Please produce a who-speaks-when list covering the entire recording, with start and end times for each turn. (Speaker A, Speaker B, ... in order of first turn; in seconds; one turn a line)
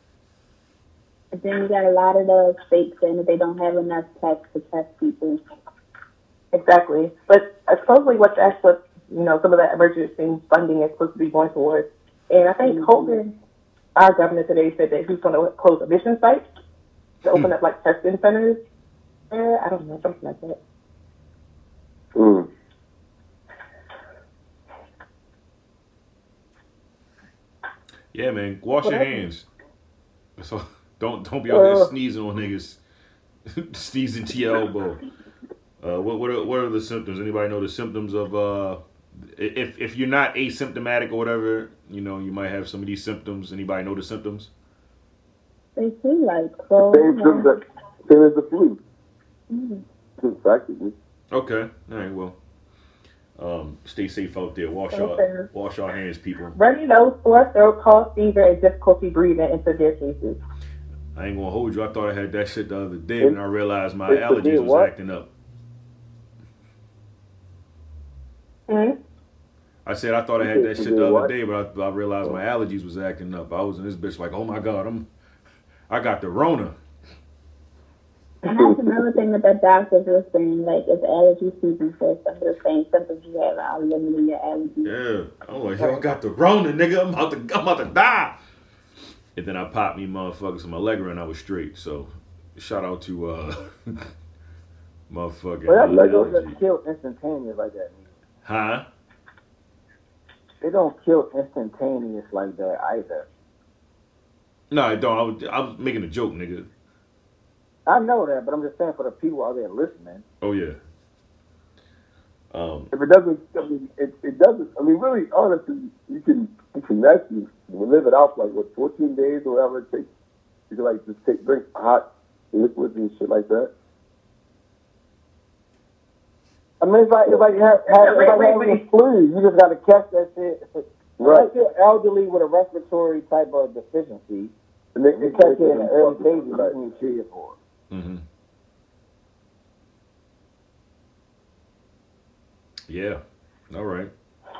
Speaker A: 1.3-5.4
Speaker B: 6.5-13.3
Speaker A: 12.6-13.1
Speaker B: 13.9-16.4
Speaker B: 17.2-18.6
Speaker B: 19.3-20.6
Speaker C: 22.1-22.5
Speaker D: 28.1-29.4
Speaker D: 30.4-32.8
Speaker E: 31.5-31.9
Speaker D: 33.5-35.0
Speaker D: 35.8-38.8
Speaker D: 39.3-44.5
Speaker A: 45.8-47.5
Speaker C: 46.9-48.8
Speaker A: 49.5-49.8
Speaker C: 50.2-50.9
Speaker D: 51.3-52.4
Speaker D: 53.4-56.5
Speaker B: 54.9-55.5
Speaker B: 56.5-60.4
Speaker D: 61.1-65.3
Speaker E: 64.1-64.9
Speaker B: 68.7-69.0
Speaker D: 69.8-75.0
Speaker C: 70.4-71.3
Speaker D: 75.9-76.7
Speaker A: 78.4-84.9
Speaker C: 78.5-78.8
Speaker D: 84.8-88.4
Speaker D: 89.3-94.1
Speaker D: 95.1-96.5
Speaker E: 95.7-98.1
Speaker C: 95.8-96.4
Speaker D: 98.4-98.8
Speaker E: 100.6-103.3
Speaker D: 104.7-106.7
Speaker E: 107.8-110.2
Speaker D: 110.4-110.8
Speaker D: 112.5-112.9
Speaker C: 112.9-120.1
Speaker C: 120.7-123.7
Speaker E: 126.8-134.5
Speaker B: 127.9-128.8
Speaker C: 131.2-131.5
Speaker C: 134.9-136.7
Speaker E: 135.2-137.6
Speaker D: 137.9-138.2
Speaker D: 142.9-144.1